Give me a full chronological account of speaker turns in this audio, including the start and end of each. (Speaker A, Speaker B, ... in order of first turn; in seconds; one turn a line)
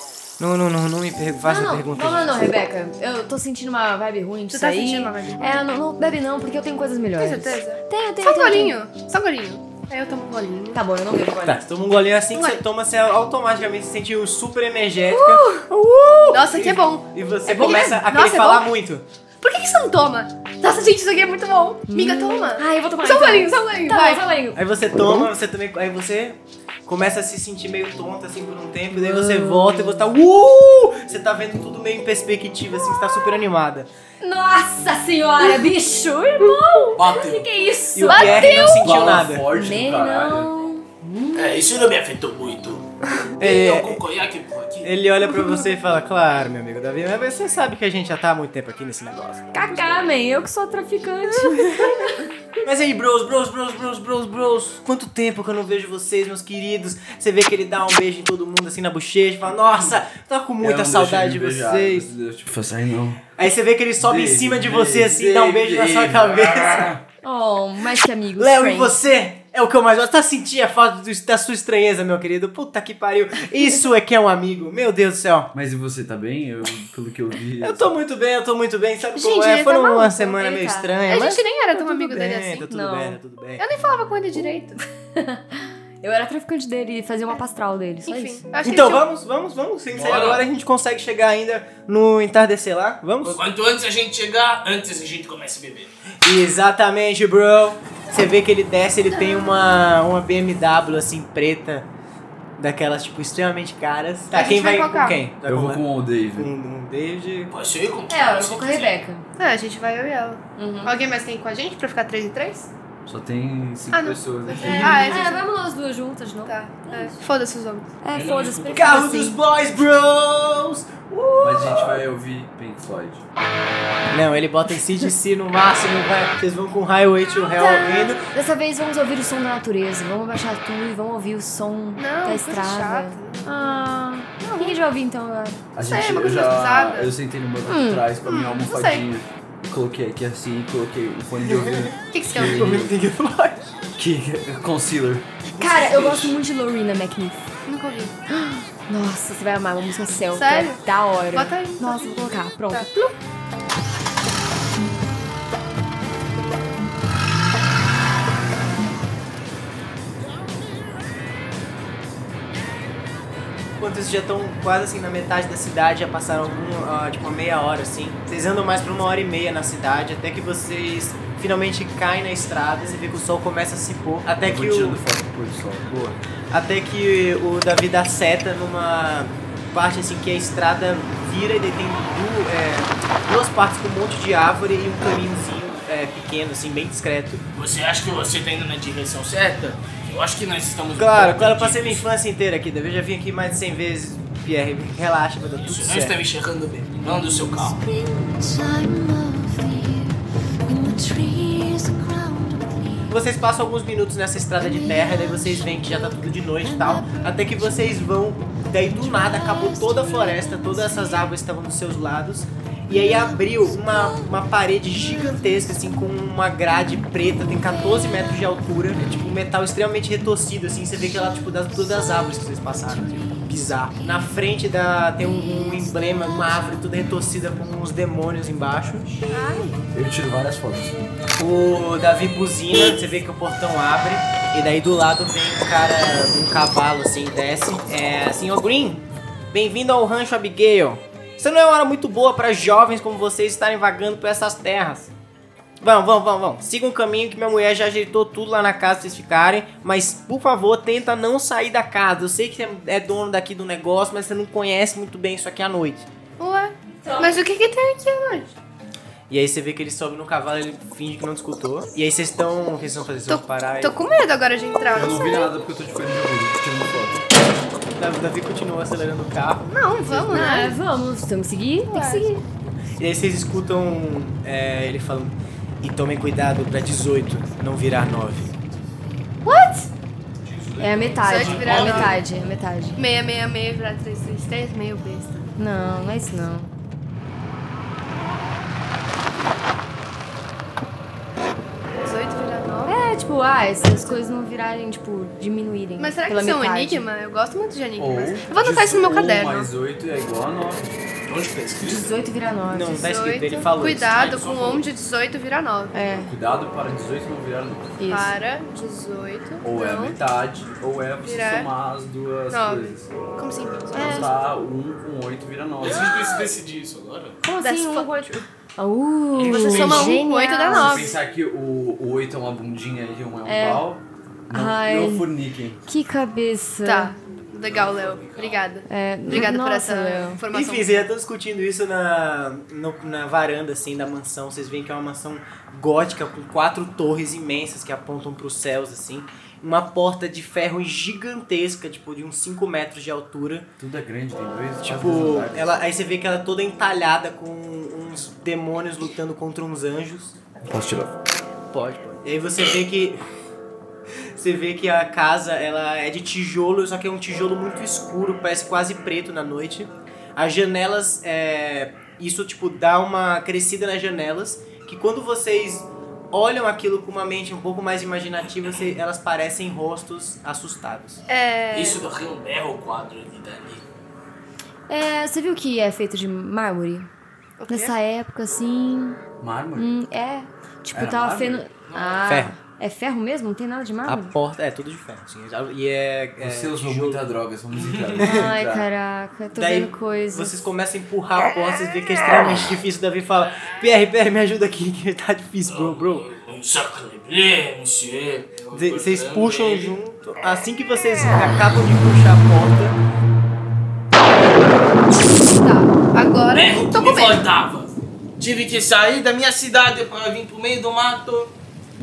Speaker A: 0.4-2.5
Speaker B: 1.4-8.8
Speaker C: 4.5-5.6
Speaker C: 7.2-10.8
Speaker B: 10.7-11.6
Speaker A: 11.4-19.0
Speaker C: 12.3-12.6
Speaker B: 15.1-15.6
Speaker C: 16.3-18.7
Speaker B: 17.5-18.0
Speaker C: 19.4-24.2
Speaker B: 21.9-25.3
Speaker A: 24.5-33.9
Speaker B: 28.9-30.1
Speaker B: 34.2-38.8
Speaker D: 37.0-37.5
Speaker A: 37.9-39.5
Speaker C: 38.1-39.0
Speaker E: 38.5-40.5
Speaker B: 39.5-41.5
Speaker D: 41.3-42.9
Speaker A: 43.4-44.0
Speaker D: 43.4-44.9
Speaker A: 44.8-50.0
Speaker B: 49.5-52.3
Speaker A: 51.5-52.0
Speaker A: 52.6-62.1
Speaker E: 60.6-63.2
Speaker A: 63.4-66.9
Speaker E: 64.0-67.0
Speaker B: 67.2-69.0
Speaker A: 68.4-75.5
Speaker E: 75.5-77.9
Speaker A: 77.6-83.6
Speaker C: 79.1-80.2
Speaker B: 80.2-80.9
Speaker C: 81.0-82.6
Speaker B: 82.6-83.2
Speaker C: 83.6-84.8
Speaker B: 85.1-88.4
Speaker C: 88.1-89.0
Speaker A: 88.6-93.4
Speaker D: 89.9-90.5
Speaker D: 93.2-95.9
Speaker A: 96.2-101.9
Speaker A: 102.6-107.5
Speaker C: 104.3-105.2
Speaker E: 105.4-106.5
Speaker D: 107.5-109.0
Speaker B: 108.1-109.2
Speaker C: 109.4-112.7
Speaker B: 110.5-110.9
Speaker E: 113.0-115.0
Speaker C: 113.9-115.4
Speaker A: 114.5-115.3
Speaker B: 114.8-117.2
Speaker C: 116.5-117.9
Speaker B: 118.0-119.4
Speaker D: 118.2-118.9
Speaker E: 118.2-118.5
Speaker A: 118.7-122.0
Speaker E: 121.4-123.2
Speaker A: 124.1-128.2
Speaker C: 127.6-128.1
Speaker B: 127.6-135.6
Speaker C: 131.9-133.8
Speaker C: 134.4-134.8
Speaker E: 135.8-143.0
Speaker C: 135.8-137.1
Speaker B: 137.7-138.1
Speaker C: 138.2-139.0
Speaker A: 141.5-143.7
Speaker C: 142.1-142.7
Speaker E: 144.0-145.2
Speaker B: 145.6-147.5
Speaker A: 145.6-146.2
Speaker C: 147.7-148.2
Speaker B: 148.3-153.1
Speaker C: 150.3-152.9
Speaker A: 163.8-175.0
Speaker E: 174.4-175.9
Speaker A: 175.9-187.4
Speaker D: 187.5-192.1
Speaker A: 191.0-196.2
Speaker D: 195.6-197.8
Speaker B: 197.7-203.1
Speaker A: 203.1-229.2
Speaker B: 204.6-207.8
Speaker B: 208.8-211.3
Speaker B: 212.9-214.3
Speaker B: 215.0-215.9
Speaker B: 217.6-218.4
Speaker B: 222.9-223.6
Speaker B: 225.2-226.7
Speaker C: 229.3-229.8
Speaker E: 229.9-231.0
Speaker A: 231.4-245.1
Speaker A: 245.8-256.1
Speaker C: 256.4-258.5
Speaker B: 257.0-257.4
Speaker A: 259.3-264.0
Speaker C: 263.3-265.5
Speaker E: 264.9-267.2
Speaker A: 268.0-270.5
Speaker C: 269.6-270.7
Speaker B: 270.3-272.4
Speaker C: 271.9-272.4
Speaker A: 272.9-278.5
Speaker B: 279.4-279.9
Speaker D: 280.4-282.2
Speaker B: 280.8-283.0
Speaker C: 281.2-282.2
Speaker C: 282.9-285.4
Speaker B: 285.6-286.7
Speaker C: 292.0-292.9
Speaker B: 292.9-297.1
Speaker C: 293.8-294.2
Speaker C: 296.0-299.7
Speaker E: 298.0-301.0
Speaker D: 301.3-302.2
Speaker B: 301.8-303.1
Speaker A: 302.7-304.1
Speaker C: 303.0-305.9
Speaker D: 304.1-304.8
Speaker B: 305.9-306.3
Speaker E: 306.2-307.9
Speaker B: 308.0-308.4
Speaker C: 308.1-310.2
Speaker E: 309.6-313.1
Speaker C: 311.2-311.7
Speaker C: 312.5-314.3
Speaker B: 313.9-314.3
Speaker E: 313.9-316.2
Speaker D: 315.8-317.4
Speaker B: 317.4-321.1
Speaker C: 317.6-318.4
Speaker D: 319.3-320.2
Speaker C: 319.5-321.1
Speaker E: 320.7-325.8
Speaker B: 323.4-323.9
Speaker B: 324.5-325.3
Speaker B: 325.9-327.1
Speaker C: 326.8-331.1
Speaker D: 327.6-328.6
Speaker B: 328.9-330.4
Speaker A: 330.5-343.7
Speaker E: 343.8-345.8
Speaker A: 344.8-350.4
Speaker E: 350.6-351.1
Speaker A: 351.7-353.2
Speaker A: 354.4-371.2
Speaker C: 371.3-372.0
Speaker D: 371.7-373.8
Speaker B: 374.9-377.1
Speaker C: 377.6-377.9
Speaker B: 377.7-379.2
Speaker E: 379.4-379.9
Speaker B: 379.7-384.3
Speaker E: 380.9-381.6
Speaker D: 381.9-382.4
Speaker A: 382.3-382.5
Speaker A: 384.1-387.3
Speaker E: 386.4-388.9
Speaker D: 387.7-388.1
Speaker B: 388.2-390.6
Speaker A: 389.5-396.3
Speaker D: 395.6-399.9
Speaker A: 398.7-403.0
Speaker C: 405.4-407.4
Speaker D: 406.5-411.5